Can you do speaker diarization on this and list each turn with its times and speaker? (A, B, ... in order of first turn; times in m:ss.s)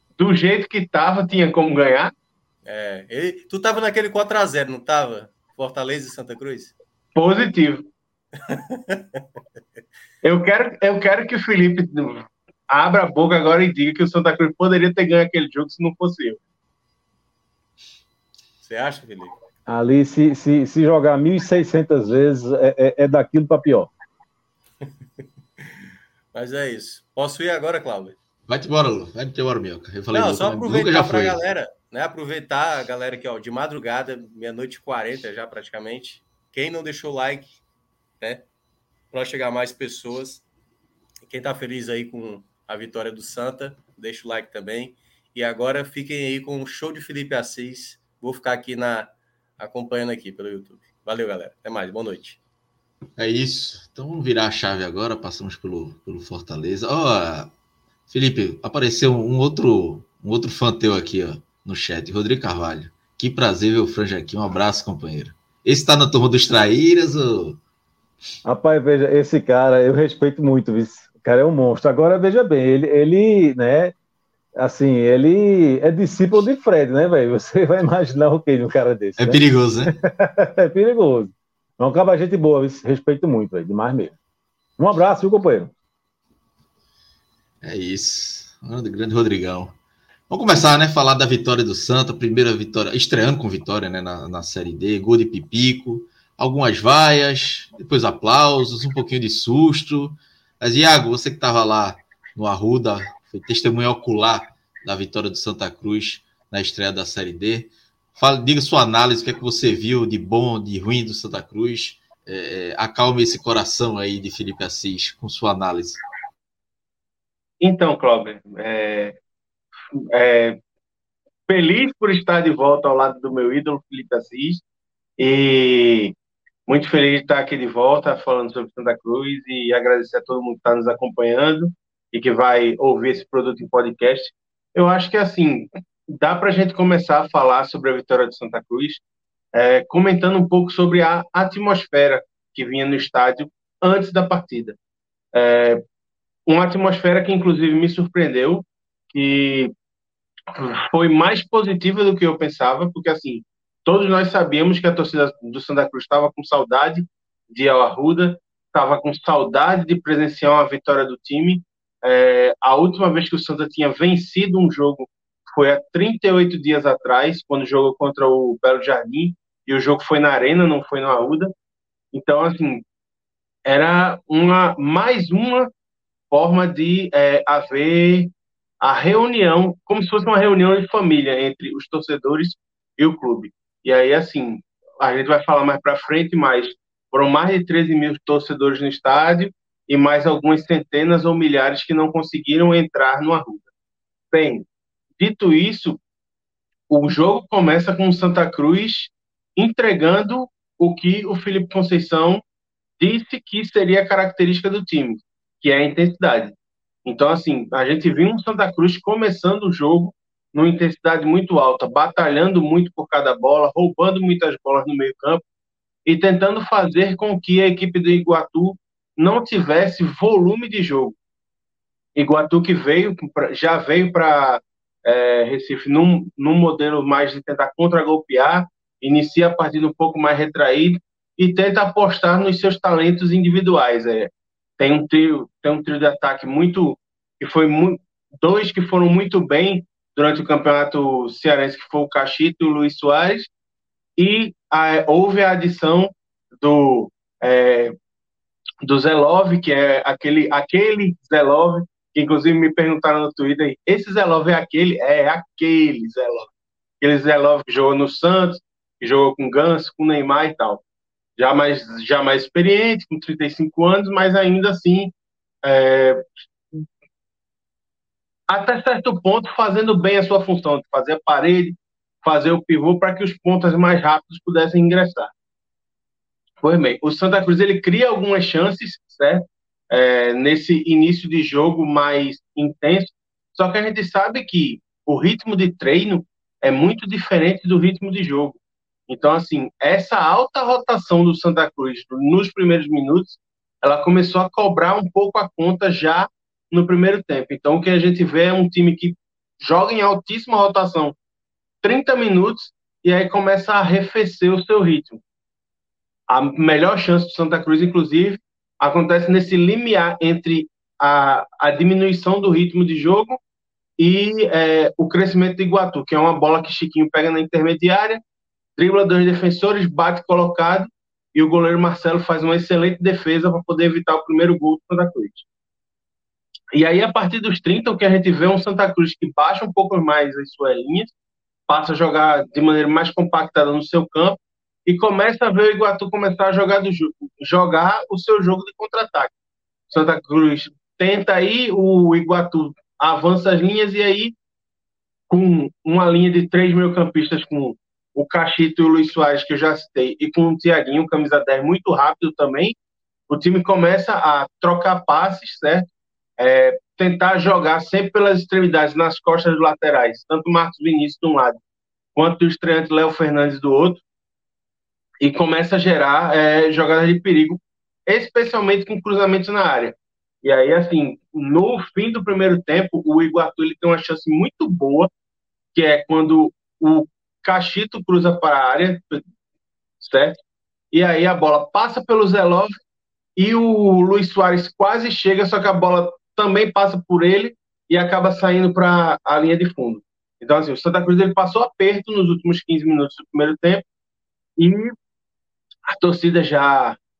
0:00.2-0:02.1 A
0:02.6-0:06.7 B
0:07.2-0:07.9 A
0:08.5-0:09.0 B
0:10.2-0:16.4 A
0:18.6-0:19.3 B
0:19.7-0:23.9 C
0:26.3-0:28.2 B
0:28.5-0:31.4 D
0:30.1-0:37.6 B
0:39.1-0:40.4 B
0:41.2-0:52.4 B
0:53.2-0:57.5 D
0:58.1-1:07.6 D
1:08.4-1:13.9 C
1:14.6-1:24.2 C
1:19.2-1:19.9 D
1:24.8-1:25.7 C
1:27.6-1:29.8 D
1:30.3-1:56.0 D
1:57.6-1:59.2 A
1:59.9-2:00.6 A
2:01.5-2:04.6 A
2:05.2-2:06.1 A
2:06.7-2:19.0 A
2:19.5-2:24.8 A
2:25.3-2:25.8 A
2:26.5-2:29.7 A
2:30.5-2:51.5 A
2:52.1-2:52.8 A
2:53.7-2:55.7 A
2:56.3-3:13.7 A
3:14.3-3:14.6 A
3:15.2-3:16.0 A
3:16.9-3:22.4 A
3:23.0-3:35.4 A
3:36.1-3:41.2 A
3:42.2-4:03.5 A
4:04.2-4:08.0 A
4:08.8-4:16.5 A
4:17.0-4:20.8 A
4:21.4-4:25.1 A
4:25.6-4:26.2 A
4:28.5-4:35.3 A
4:36.6-5:01.2 A
5:01.8-5:05.2 A
5:06.3-5:13.4 A
5:14.0-5:18.2 A
5:18.8-5:25.4 A
5:26.7-5:31.1 A
5:31.7-5:39.3 A
5:39.9-5:44.4 A
5:45.3-5:52.7 A
5:53.3-5:55.9 A
5:56.4-6:01.6 A
6:02.2-6:04.0 A
6:05.2-6:15.1 A
6:15.7-6:19.2 A
6:20.0-6:20.4 A
6:20.9-6:22.8 A
6:23.4-6:33.8 A
6:34.6-6:35.0 A
6:36.0-6:37.0 A